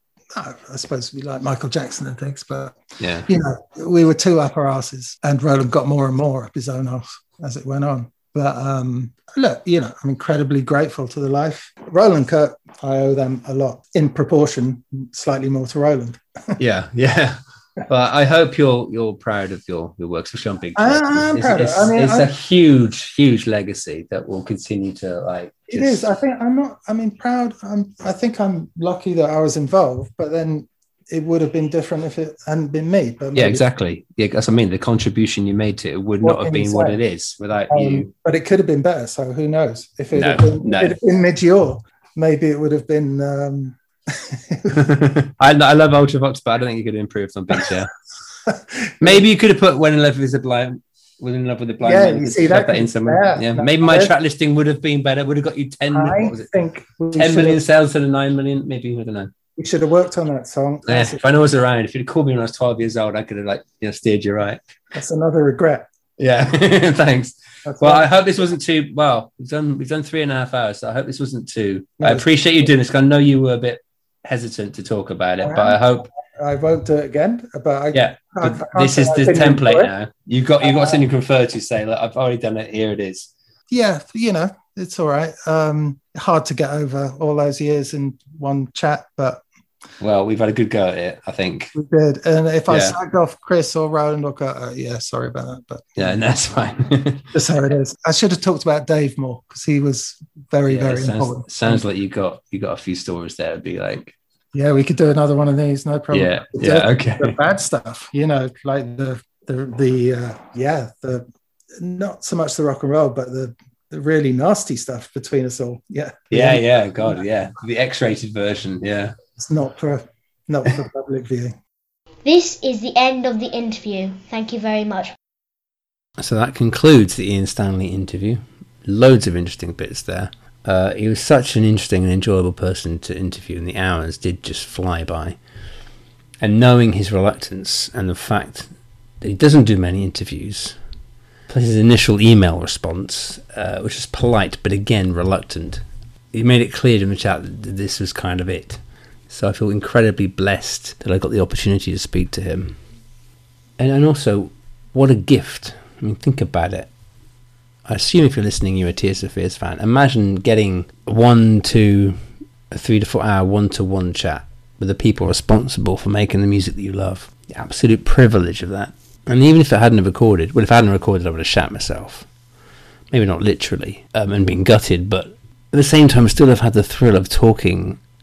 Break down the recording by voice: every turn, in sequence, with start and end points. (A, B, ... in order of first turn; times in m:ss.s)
0:00.3-0:16.6 A
0:03.0-0:03.3 B
0:16.6-0:26.1 B
0:20.8-0:22.3 A
0:25.7-0:33.6 A
0:33.4-0:38.1 B
0:36.2-0:37.0 A
0:37.7-0:44.8 A
0:40.1-0:41.0 B
0:44.8-0:47.9 B
0:48.5-0:49.2 A
0:49.0-0:56.5 B
0:51.8-0:54.1 A
0:55.9-0:57.6 A
0:57.1-0:59.3 B
0:59.6-1:01.2 A
1:00.9-1:04.6 B
1:04.9-1:05.9 A
1:06.2-1:16.1 B
1:07.6-1:08.1 A
1:12.0-1:12.3 A
1:15.4-1:19.9 A
1:17.9-1:23.3 B
1:20.6-1:21.0 A
1:23.7-1:29.4 A
1:30.0-1:31.7 B
1:31.7-1:36.2 A
1:32.7-1:33.0 B
1:36.0-1:37.3 B
1:37.3-1:41.8 A
1:40.7-1:44.2 B
1:44.5-1:57.2 A
1:46.1-1:47.4 B
1:56.3-1:59.2 B
1:59.4-2:01.6 A
2:02.2-2:05.2 C
2:06.2-2:15.4 B
2:16.4-2:20.8 B
2:21.5-2:32.9 B
2:33.8-2:37.0 B
2:37.8-2:52.3 B
2:53.1-2:58.0 B